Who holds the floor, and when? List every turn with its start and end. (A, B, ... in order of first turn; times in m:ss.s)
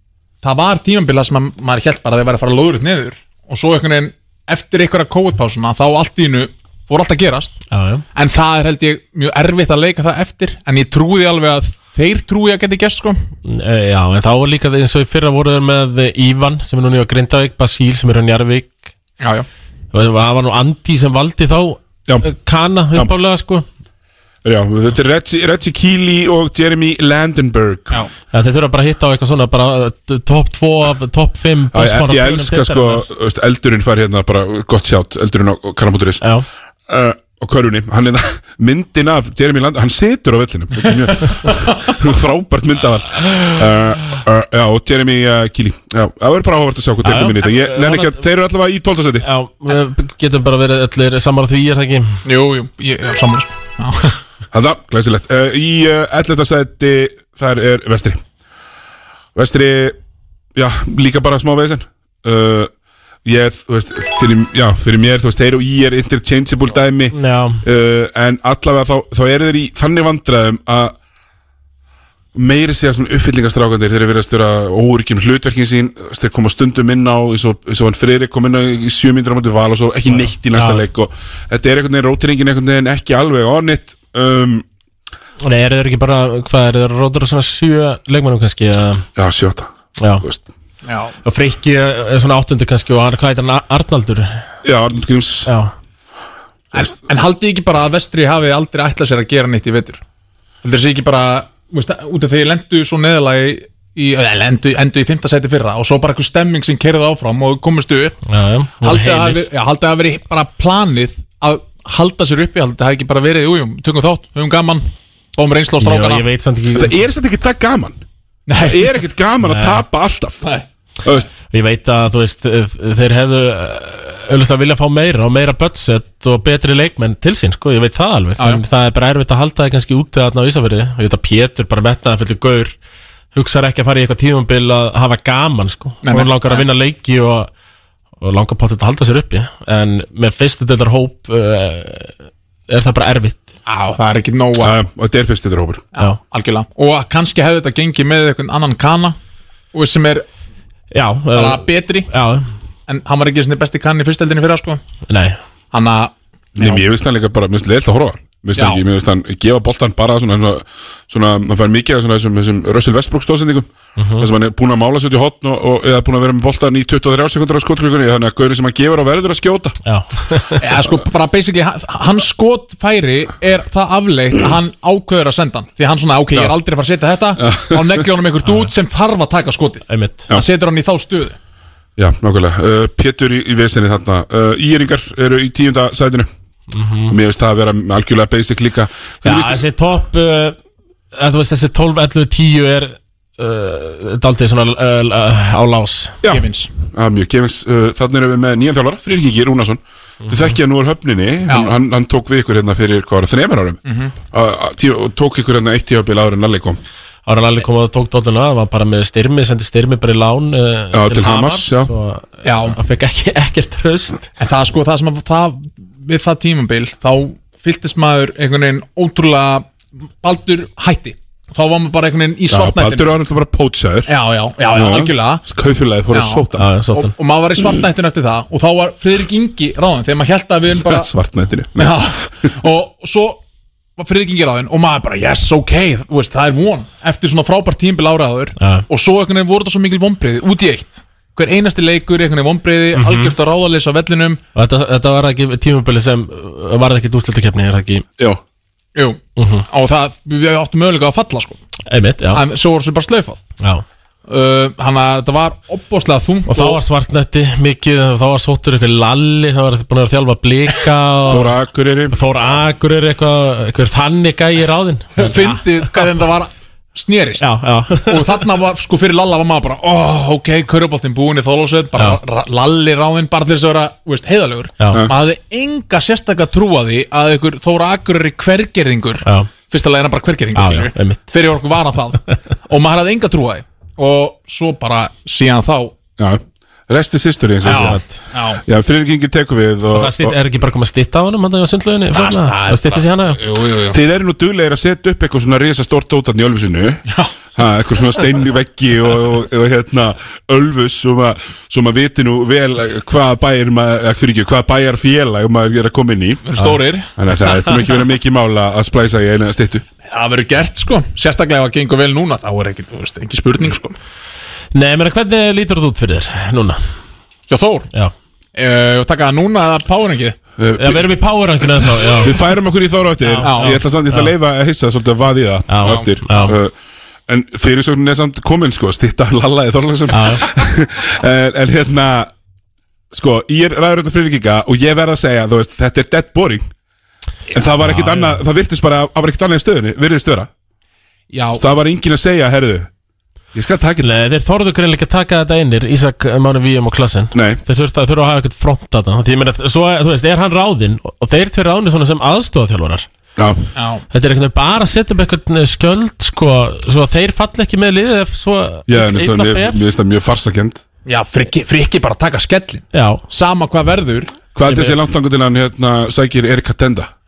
0:00.4-0:07.6 A
0:07.7-0:08.0 B
0:08.2-0:13.2 A
0:13.4-0:18.8 B
0:19.2-0:19.5 A
0:19.9-0:23.7 B
0:24.4-0:28.0 C
0:28.3-0:33.1 B
0:31.7-0:36.2 C
0:36.2-0:36.5 B
0:36.9-0:49.3 C
0:47.0-0:48.2 B
0:49.2-0:52.2 B
0:52.2-0:54.2 A
0:54.5-0:58.2 C
0:59.4-1:00.0 C
1:00.6-1:02.7 C
1:03.2-1:11.0 C
1:07.1-1:07.6 B
1:12.4-1:24.6 C
1:20.5-1:20.8 B
1:25.4-1:29.1 B
1:29.2-1:30.4 C
1:30.0-1:30.2 B
1:30.8-1:31.2 A
1:31.2-1:34.4 B
1:34.6-1:35.5 C
1:35.5-1:35.7 B
1:36.7-1:40.0 A
1:40.6-1:48.2 A
1:48.2-1:49.5 B
1:48.8-1:56.3 A
1:55.8-1:57.0 B
1:56.8-1:58.0 C
1:58.5-1:59.0 A
1:58.6-2:00.5 C
1:59.4-1:59.8 B
2:01.5-2:12.8 B
2:08.4-2:08.6 A
2:13.3-2:17.5 B
2:16.0-2:16.7 A
2:18.2-2:22.2 B
2:22.7-2:23.5 B
2:23.7-2:24.8 A
2:24.6-2:25.8 C
2:26.0-2:29.2 A
2:29.7-2:30.3 A
2:30.9-2:32.5 B
2:31.3-2:32.1 A
2:32.9-2:34.8 A
2:35.1-2:35.4 B
2:35.7-2:36.8 A
2:36.6-2:49.8 C
2:38.6-2:38.8 A
2:44.0-2:44.3 B
2:49.8-2:50.6 B
2:50.6-3:01.4 A
2:57.4-2:58.1 C
2:58.4-2:58.7 B
2:59.9-3:00.3 B
3:02.0-3:06.3 C
3:06.7-3:07.2 B
3:07.1-3:09.6 C
3:09.2-3:10.6 B
3:11.1-3:16.2 B
3:16.2-3:26.8 C
3:16.3-3:16.7 A
3:20.3-3:20.6 B
3:21.5-3:21.8 A
3:23.8-3:24.2 A
3:27.3-3:34.3 B
3:30.9-3:31.9 C
3:32.4-3:32.8 A
3:34.4-3:39.7 A
3:40.2-3:43.2 A
3:42.5-3:44.1 C
3:44.1-3:45.4 A
3:44.7-3:46.7 C
3:46.1-3:51.1 A
3:46.6-3:47.1 B
3:50.7-3:52.1 C
3:51.8-3:53.4 A
3:54.0-4:04.4 A
3:58.6-3:58.9 B
4:02.9-4:03.4 B
4:04.6-4:08.0 B
4:09.0-4:11.6 A
4:09.4-4:09.7 B
4:11.9-4:12.4 B
4:12.3-4:13.4 A
4:13.6-4:13.8 B
4:14.3-4:16.8 A
4:16.5-4:21.5 B
4:21.3-4:22.2 C
4:22.1-4:25.8 B
4:25.2-4:27.4 A
4:27.4-4:28.4 B
4:28.1-4:45.9 A
4:32.0-4:32.2 B
4:34.8-4:35.0 B
4:39.2-4:39.5 B
4:40.6-4:41.2 B
4:46.2-4:48.0 C
4:47.6-4:48.6 A
4:47.7-4:48.2 B
4:48.6-4:50.4 C
4:49.9-4:53.4 B
4:52.1-4:54.0 A
4:53.9-4:57.0 C
4:57.6-5:06.6 C
5:06.4-5:07.1 A
5:07.2-5:09.8 C
5:10.0-5:14.0 A
5:14.7-5:16.8 B
5:17.5-5:17.9 A
5:18.6-5:20.4 A
5:20.6-5:21.1 C
5:20.8-5:22.4 B
5:22.0-5:26.7 C
5:23.2-5:24.3 B
5:23.4-5:23.8 A
5:25.7-5:26.6 B
5:25.8-5:26.1 A
5:27.3-5:32.3 C
5:30.1-5:30.4 B
5:33.1-5:36.7 C
5:37.5-5:40.5 C
5:37.8-5:38.4 B
5:41.3-5:41.6 A
5:41.5-5:42.9 C
5:43.6-5:44.1 C
5:44.0-5:53.1 B
5:47.3-5:47.6 C
5:53.4-5:53.7 C
5:53.8-5:54.0 A
5:54.1-5:59.8 B
5:58.9-6:00.8 C
6:01.1-6:04.3 A
6:02.9-6:03.2 B
6:04.6-6:07.1 C
6:04.7-6:05.0 B